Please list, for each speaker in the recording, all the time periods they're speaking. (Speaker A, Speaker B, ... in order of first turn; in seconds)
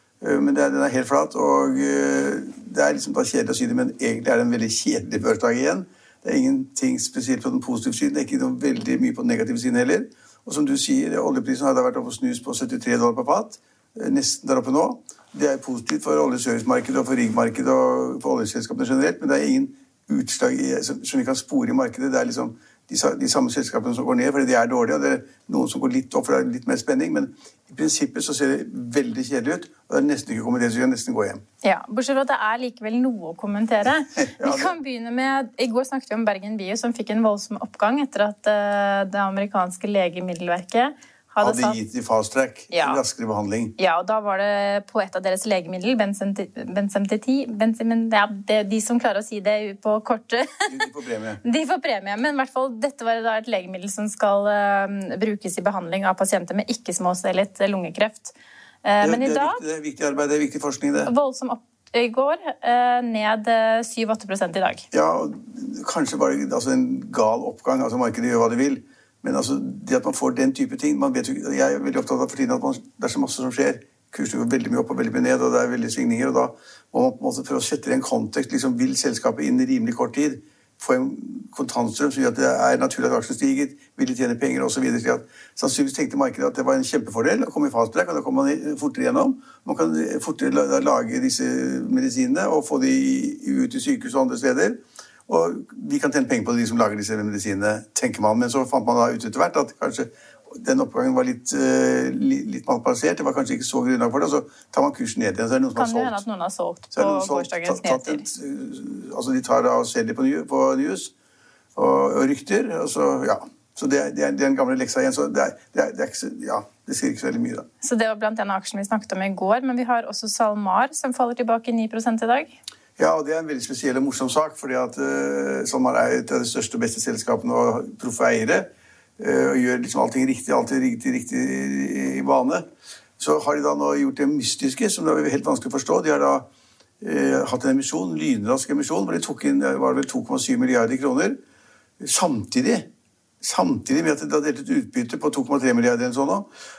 Speaker A: 0.2-31.4, 34.1-34.8, 41.4-43.7, 50.7-51.4, 59.0-61.1, 64.9-106.2, 106.9-111.1, 111.7-117.7, 123.0-132.6, 133.2-136.4, 137.0-141.4, 142.0-142.9, 143.4-146.5
Speaker B: 31.6-41.8, 42.7-43.0, 43.8-50.9, 51.4-59.6, 61.0-64.8, 105.7-108.2, 117.8-122.5